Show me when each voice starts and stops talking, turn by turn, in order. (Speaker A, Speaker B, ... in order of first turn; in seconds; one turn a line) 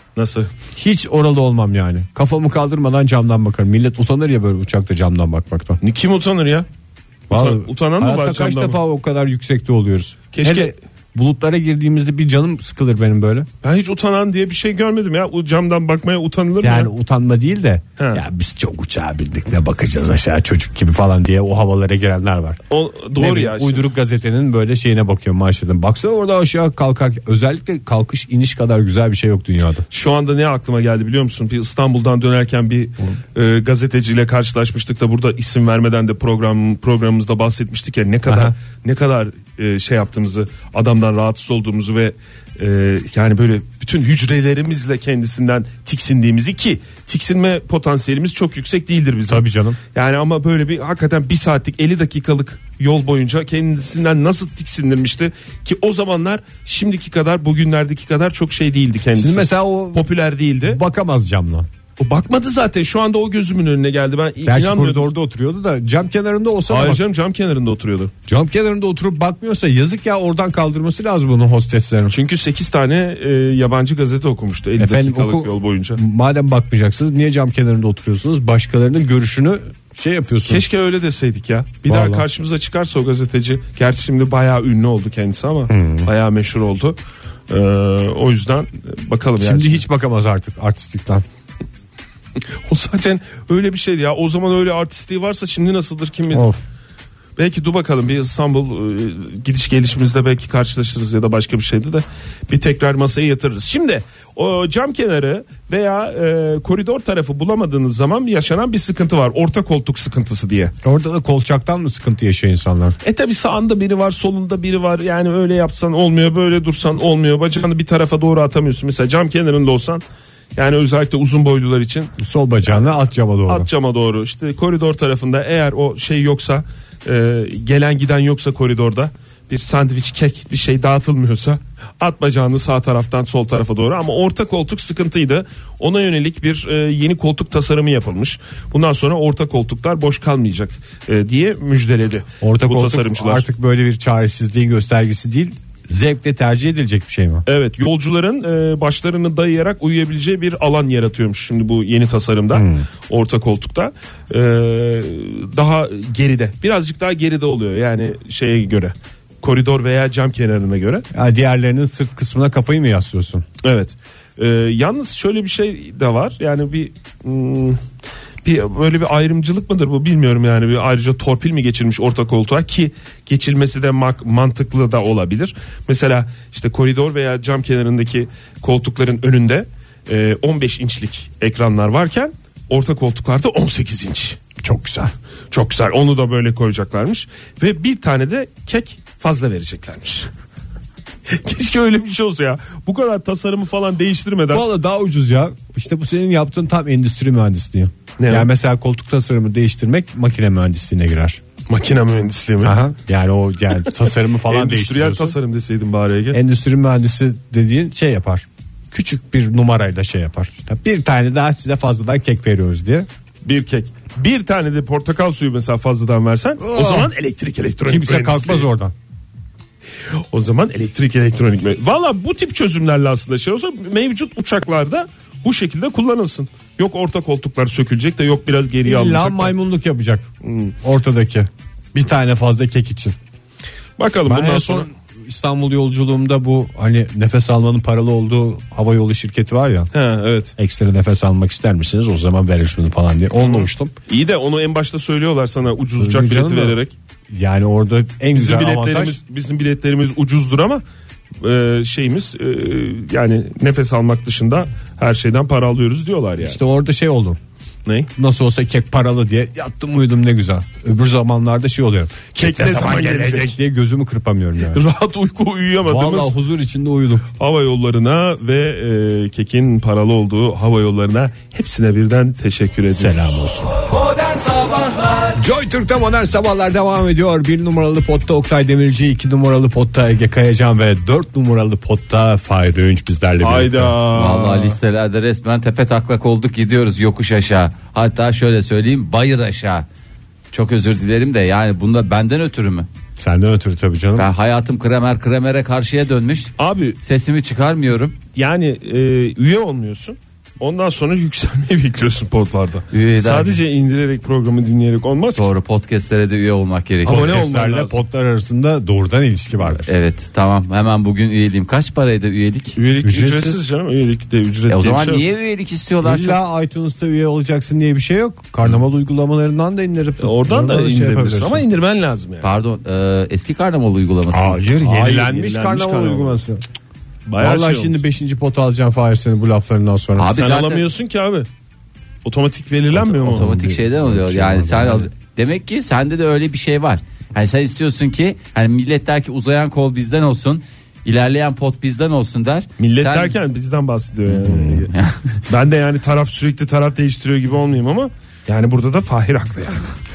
Speaker A: 0.1-0.5
Speaker B: 0.7-5.8
Speaker A: 5.8-6.7
Speaker B: 7.3-13.5
Speaker A: 7.3-8.8
Speaker A: 10.3-10.7
Speaker A: 13.6-16.9
Speaker B: 16.6-22.6
Speaker A: 18.0-18.2
Speaker A: 22.7-23.9
Speaker B: 23.1-29.8
Speaker A: 29.9-60.8
Speaker B: 38.2-38.5
Speaker B: 49.3-49.8
Speaker B: 59.1-60.1
Speaker B: 60.6-61.7
Speaker A: 62.0-65.1
Speaker B: 64.4-67.0
Speaker A: 66.7-68.1
Speaker B: 68.3-72.1
Speaker A: 72.1-76.0
Speaker B: 74.8-80.6
Speaker A: 80.4-87.0
Speaker B: 81.9-82.2
Speaker B: 85.7-86.1
Speaker A: 87.5-89.8
Speaker B: 89.4-91.2
Speaker A: 92.6-96.5
Speaker B: 96.3-96.6
Speaker A: 97.4-110.7
Speaker B: 110.8-113.0
Speaker A: 113.0-120.0
Speaker A: 120.5-122.1
Speaker B: 122.2-123.7
Speaker A: 123.5-143.4
Speaker B: 142.4-147.4
Speaker A: 147.4-161.1
Speaker B: 152.5-152.8
Speaker B: 161.1-163.4
Speaker A: 163.6-167.8
Speaker A: 168.4-184.4
Speaker B: 184.6-185.1
Speaker A: 185.5-190.3
Speaker A: 191.3-194.7
Speaker B: 194.5-201.4
Speaker A: 198.2-198.5
Speaker A: 201.7-202.8
Speaker B: 202.6-205.4
Speaker A: 204.4-206.4
Speaker B: 206.3-213.1
Speaker A: 213.4-218.7
Speaker B: 216.6-217.1
Speaker B: 217.9-218.9
Speaker A: 220.3-229.5
Speaker B: 228.8-230.3
Speaker A: 230.4-230.7
Speaker B: 230.8-233.2
Speaker A: 234.0-234.9
Speaker B: 234.2-239.9
Speaker A: 239.9-240.5
Speaker B: 240.6-243.9
Speaker A: 243.4-246.9
Speaker B: 246.0-246.8
Speaker B: 247.3-249.2
Speaker A: 248.3-250.8
Speaker A: 251.4-256.6
Speaker B: 256.4-257.4
Speaker B: 258.1-264.8
Speaker A: 262.3-263.6
Speaker A: 264.7-266.4
Speaker B: 265.8-267.2
Speaker A: 267.3-273.4
Speaker B: 272.9-273.8
Speaker B: 275.3-284.0
Speaker A: 283.4-284.8
Speaker C: 284.1-289.9
Speaker C: 290.5-292.9
Speaker B: 293.2-294.3
Speaker C: 294.1-298.2
Speaker A: 296.6-297.0
Speaker A: 298.3-305.5
Speaker C: 302.9-303.6
Speaker C: 305.4-307.4
Speaker A: 307.0-308.0
Speaker B: 307.1-309.9
Speaker C: 309.6-312.8
Speaker A: 312.8-315.2
Speaker B: 313.0-313.6
Speaker C: 314.7-316.4
Speaker B: 316.0-321.6
Speaker A: 320.2-322.5
Speaker C: 322.4-324.6
Speaker B: 324.3-326.6
Speaker A: 324.8-326.4
Speaker A: 327.3-328.0
Speaker B: 327.4-330.3
Speaker C: 330.2-330.9
Speaker A: 330.3-331.5
Speaker A: 332.2-333.5
Speaker C: 333.1-343.4
Speaker B: 333.1-335.1
Speaker A: 342.8-344.9
Speaker C: 344.3-345.2
Speaker A: 345.5-349.8